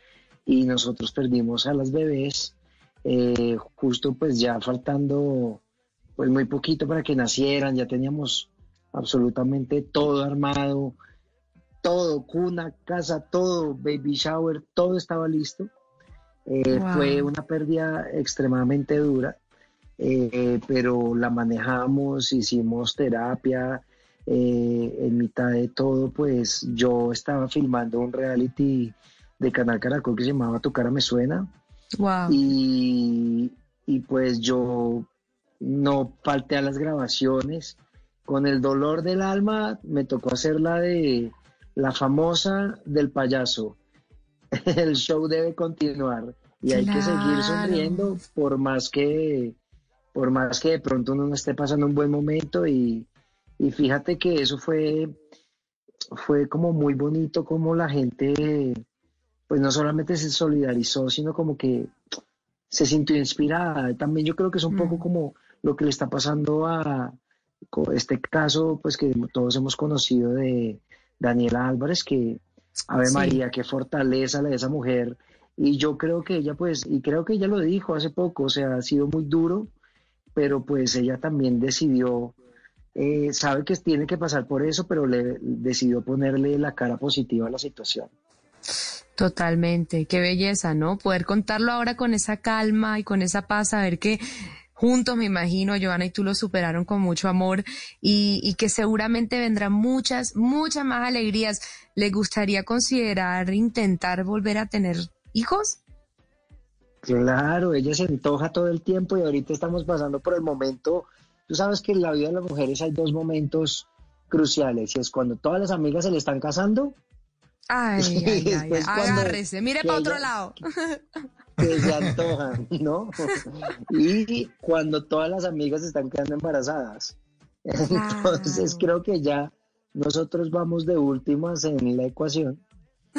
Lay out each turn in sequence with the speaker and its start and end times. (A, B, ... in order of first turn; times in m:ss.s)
0:00.4-0:05.6 A
0:06.2-0:11.0 A
0:11.8-0:15.7 A
0:16.5-0:19.4 A
0:16.7-0:17.3 B
0:20.0-0:31.5 A
0:32.0-0:32.4 B
0:32.3-0:35.1 A
0:35.6-0:43.8 A
0:44.6-0:49.6 A
0:46.7-0:48.1 B
0:50.1-0:53.1 A
0:53.6-0:55.1 A
0:56.1-0:58.8 A
0:59.5-1:01.9 A
1:02.7-1:07.2 A
1:04.7-1:05.0 B
1:07.7-1:19.7 A
1:13.0-1:13.4 B
1:20.3-1:22.4 A
1:23.0-1:28.1 A
1:29.2-1:34.2 B
1:34.8-1:45.8 B
1:47.0-1:56.9 A
1:57.7-2:01.0 B
1:58.0-2:00.3 A
2:01.6-2:12.6 A
2:07.9-2:08.8 B